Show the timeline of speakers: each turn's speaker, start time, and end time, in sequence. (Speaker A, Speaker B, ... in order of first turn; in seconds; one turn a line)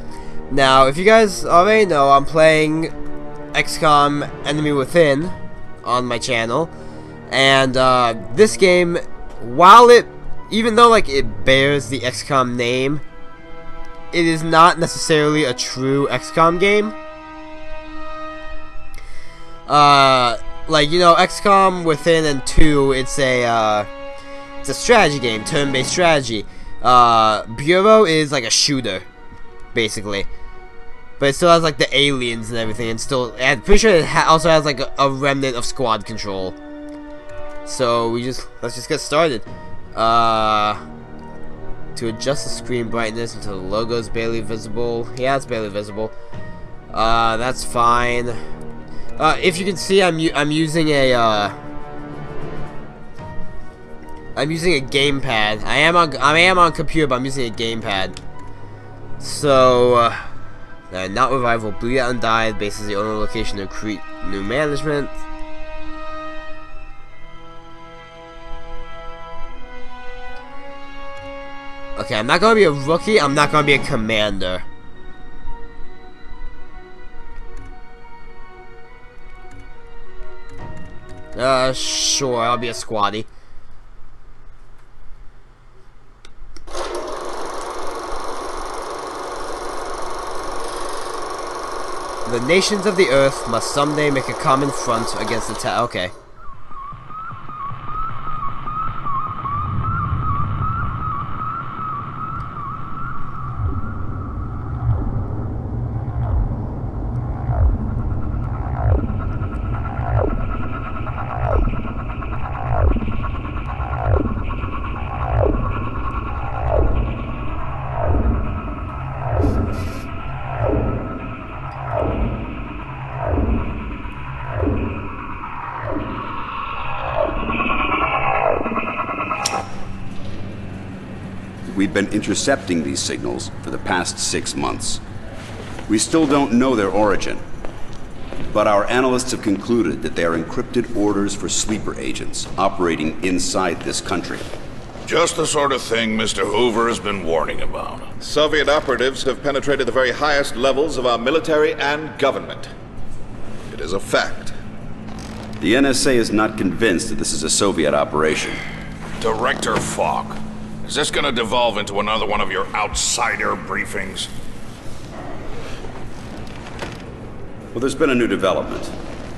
Speaker A: 0.5-2.9
Speaker A: 3.5-6.7
Speaker A: 7.3-13.0
Speaker A: 14.1-17.0
Speaker A: 19.7-23.9
Speaker A: 24.6-29.1
Speaker A: 29.7-30.3
Speaker A: 31.2-36.6
Speaker A: 37.7-40.8
Speaker A: 42.0-46.1
Speaker A: 46.9-48.4
Speaker A: 49.2-51.6
Speaker A: 54.4-58.2
Speaker A: 59.2-60.3
Speaker A: 60.9-65.2
Speaker A: 72.0-74.7
Speaker A: 81.3-83.3
Speaker A: 92.3-96.1
Speaker B: 131.7-135.0
Speaker B: 135.9-137.4
Speaker B: 138.5-144.5
Speaker C: 145.1-148.1
Speaker D: 148.2-152.7
Speaker D: 153.7-154.6
Speaker B: 155.6-158.6
Speaker C: 159.2-164.3
Speaker B: 167.7-168.9